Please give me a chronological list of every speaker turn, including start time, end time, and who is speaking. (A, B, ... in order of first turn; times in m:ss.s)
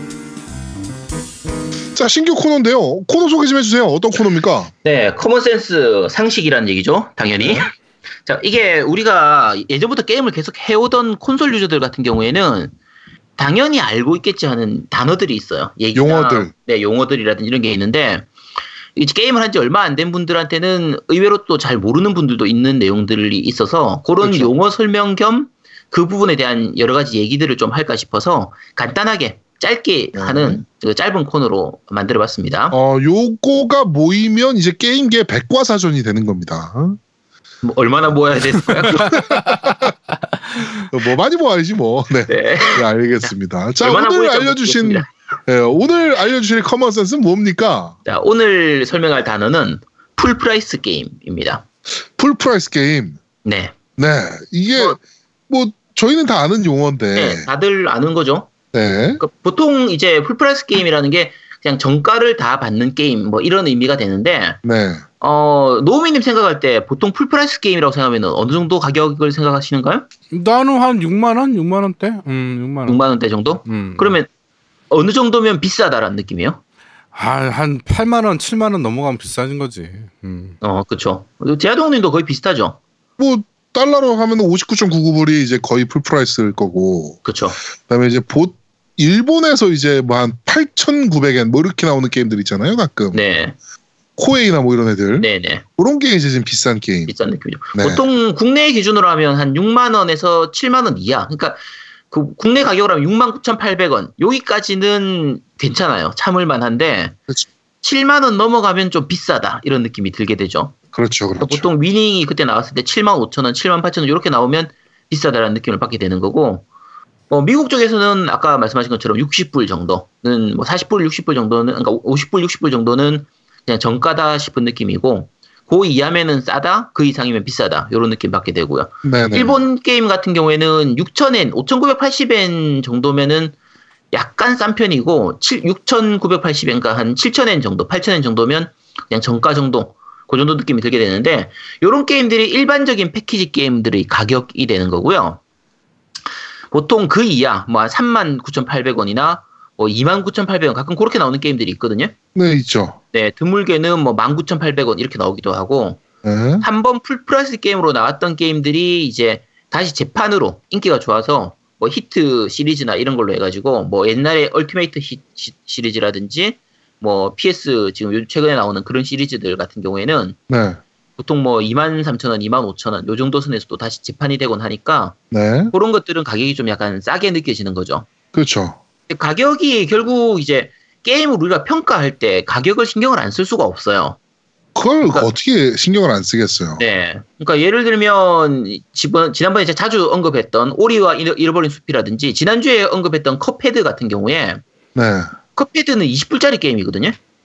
0:01.9-0:04.7 A
0:04.8-0:07.7 B
0:07.4-0:07.6 A
0:08.2-0:12.7 B
0:13.4-0:18.3 B
0:15.9-0:16.5 A
0:19.0-0:32.8 B
0:24.2-0:24.5 A
0:30.1-0:30.6 A
0:32.7-0:37.0 A
0:37.6-0:39.3 B
0:39.3-0:39.9 A
0:40.9-0:48.0 A
0:42.3-0:45.1 B
0:48.0-0:51.6 B
0:52.1-0:53.2 A
0:53.4-0:53.7 B
0:54.0-0:55.0 A
0:55.5-0:57.5 A
0:57.1-0:58.5 B
0:58.7-0:59.2 A
0:59.2-1:04.6 B
1:04.6-1:05.0 A
1:05.2-1:10.0 B
1:10.3-1:13.0 C
1:12.9-1:14.3 B
1:13.6-1:14.2 C
1:14.9-1:16.6 B
1:17.1-1:20.6 C
1:20.6-1:22.8 B
1:23.2-1:27.3 A
1:27.2-1:27.6 B
1:27.8-1:33.2 A
1:33.1-1:33.6 B
1:34.2-1:37.1 A
1:35.2-1:35.6 B
1:37.1-1:47.2 B
1:37.7-1:38.0 A
1:47.8-1:50.7 B
1:50.9-1:51.7 A
1:51.4-1:56.6 B
1:57.3-2:13.5 B
2:09.0-2:09.6 A
2:14.1-2:25.4 B
2:26.7-2:32.1 B
2:32.3-2:33.0 A
2:33.1-2:36.0 B
2:36.2-2:36.6 A
2:36.6-2:50.4 B
2:50.5-2:50.8 A
2:51.2-2:55.2 B
2:55.3-2:55.7 A
2:55.7-2:58.1 B
2:58.3-2:58.8 A
2:59.1-3:04.2 B
3:04.7-3:06.8 A
3:06.8-3:14.6 B
3:14.9-3:15.3 A
3:15.5-3:17.2 B